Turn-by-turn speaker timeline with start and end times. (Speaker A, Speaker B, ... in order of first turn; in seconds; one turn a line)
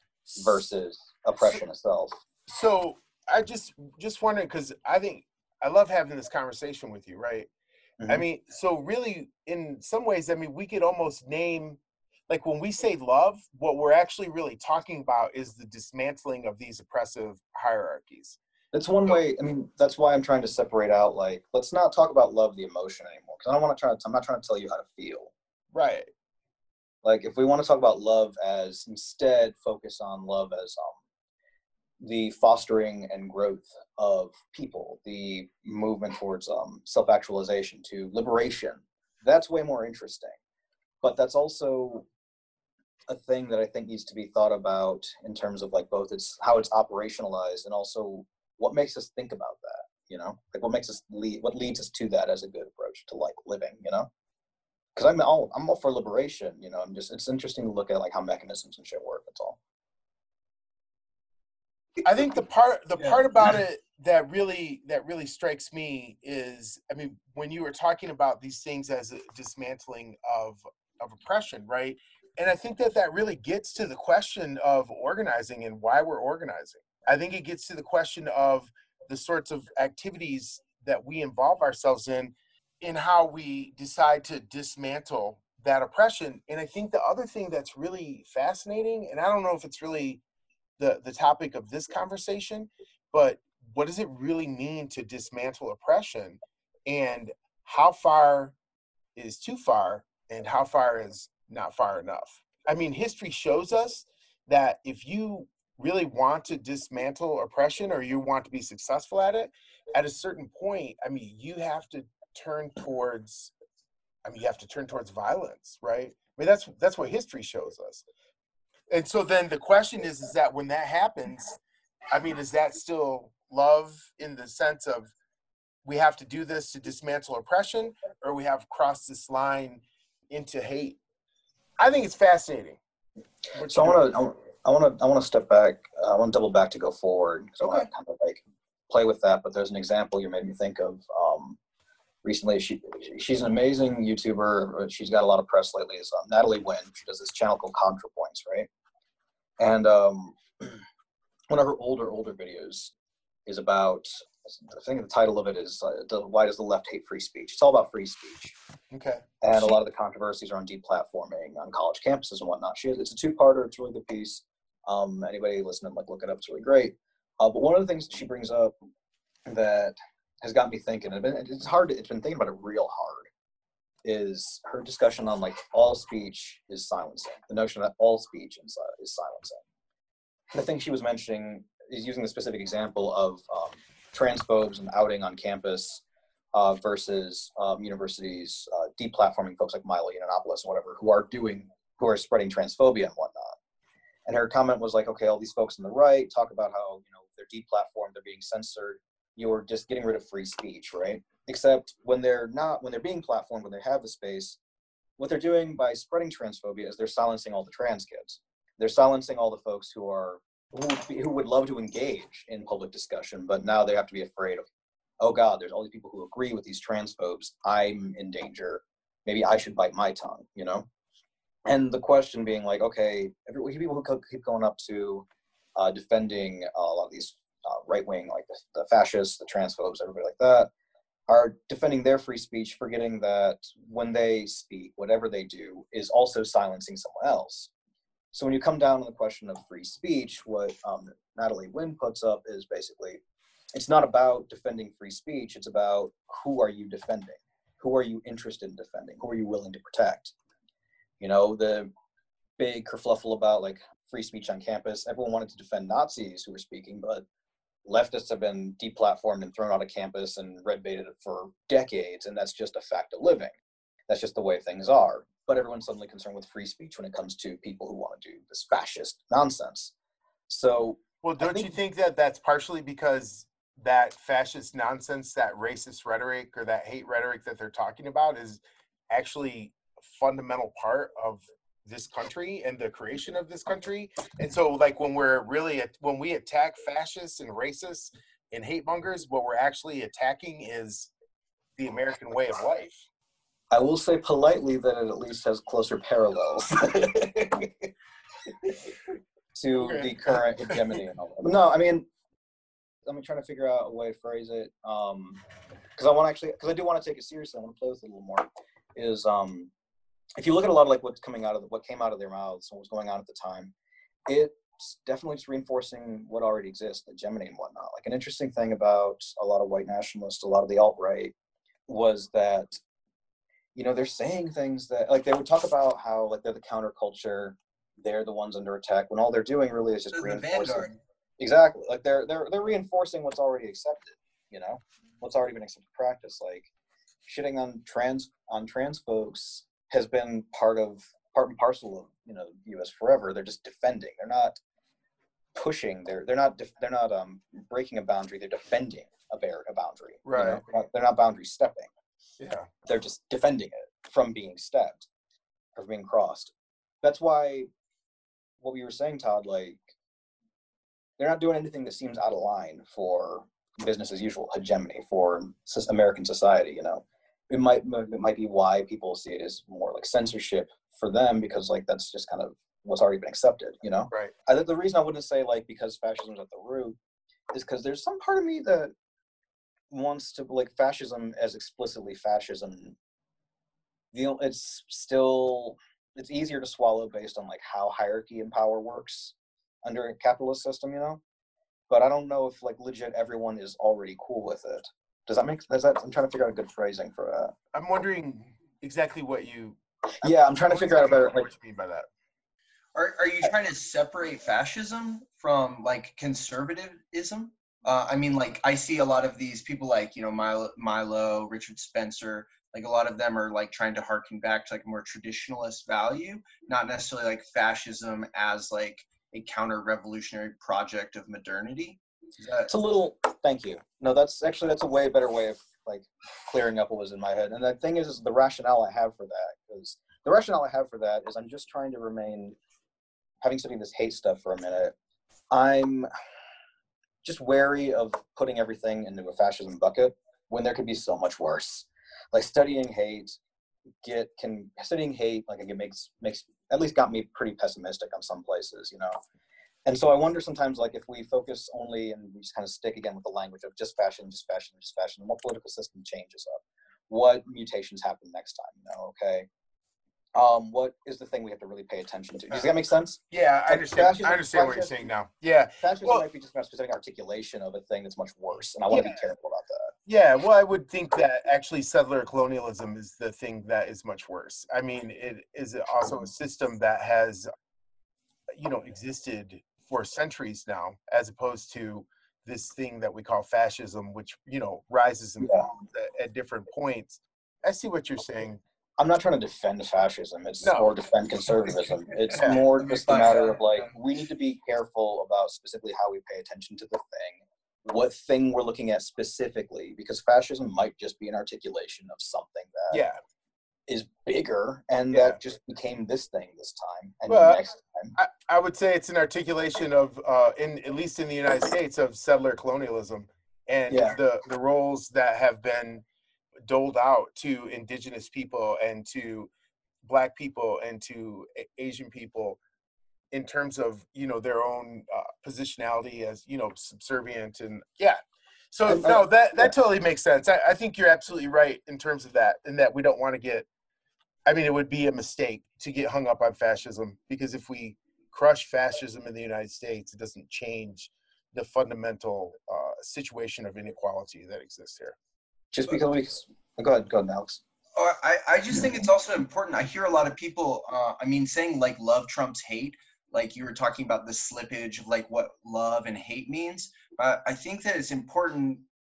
Speaker A: 0.3-0.6
Speaker B: 0.4-2.2
Speaker A: 1.4-1.6
Speaker A: 2.5-7.5
Speaker B: 8.0-8.3
Speaker A: 8.1-18.4
Speaker B: 18.7-25.3
Speaker A: 25.7-26.1
Speaker B: 27.0-31.0
Speaker B: 32.0-40.4
Speaker B: 41.0-42.1
Speaker B: 43.1-54.1
Speaker B: 55.0-59.6
Speaker A: 62.0-90.2
Speaker A: 90.8-98.5
Speaker A: 99.2-113.5
Speaker A: 114.2-118.0
Speaker A: 118.9-121.6
Speaker A: 122.1-125.1
Speaker A: 125.8-131.0
Speaker A: 131.8-132.8
Speaker A: 133.5-134.1
Speaker B: 133.7-141.6
Speaker B: 142.2-148.7
Speaker B: 149.6-150.8
Speaker B: 151.5-152.9
Speaker B: 153.5-158.6
Speaker A: 158.9-159.8
Speaker B: 159.4-168.8
Speaker B: 169.5-173.3
Speaker B: 174.0-179.6
Speaker B: 180.5-186.0
Speaker B: 186.5-193.6
Speaker B: 194.3-204.6
Speaker B: 205.2-214.7
Speaker B: 215.2-220.9
Speaker B: 221.7-230.7
Speaker B: 231.3-237.7
Speaker B: 238.3-243.2
Speaker B: 243.7-250.3
Speaker B: 251.2-251.9
Speaker B: 252.6-257.2
Speaker B: 257.9-263.6
Speaker B: 264.1-269.9
Speaker B: 270.5-271.7
Speaker A: 271.2-291.1
Speaker A: 291.8-293.0
Speaker B: 293.7-297.9
Speaker B: 298.6-302.1
Speaker A: 299.8-301.0
Speaker B: 303.1-305.4
Speaker B: 306.0-309.7
Speaker B: 310.4-313.7
Speaker B: 314.3-321.3
Speaker B: 321.9-322.8
Speaker B: 323.8-330.9
Speaker C: 330.1-331.0
Speaker B: 331.4-336.7
Speaker B: 337.2-344.6
Speaker B: 345.6-351.9
Speaker A: 350.3-350.6
Speaker A: 352.4-352.7
Speaker B: 352.9-355.1
Speaker B: 355.8-357.7
Speaker B: 358.6-359.8
Speaker B: 361.2-377.0
Speaker B: 377.5-378.9
Speaker B: 379.9-383.0
Speaker B: 384.1-391.2
Speaker B: 391.9-397.5
Speaker A: 397.7-399.8
Speaker B: 400.2-401.5
Speaker A: 400.4-402.1
Speaker C: 402.9-422.7
Speaker B: 422.7-432.6
Speaker B: 433.4-434.9
Speaker B: 435.5-436.1
Speaker B: 437.2-443.4
Speaker B: 444.0-449.1
Speaker B: 449.9-459.5
Speaker B: 460.4-465.1
Speaker A: 463.3-466.2
Speaker B: 465.8-469.9
Speaker A: 468.9-469.3
Speaker A: 470.1-477.5
Speaker A: 478.5-488.6
Speaker B: 485.4-485.7
Speaker B: 489.0-503.0
Speaker A: 490.6-490.9
Speaker C: 492.3-493.9
Speaker A: 492.4-492.6
Speaker A: 502.9-503.2
Speaker B: 503.9-508.1
Speaker A: 505.1-505.4
Speaker A: 507.3-507.6
Speaker A: 508.2-516.0
Speaker B: 513.9-514.2
Speaker A: 516.6-519.5
Speaker A: 520.0-522.6
Speaker A: 523.3-528.2
Speaker A: 528.7-533.7
Speaker B: 528.9-529.8
Speaker A: 534.5-545.2
Speaker B: 545.7-547.6
Speaker C: 548.0-558.9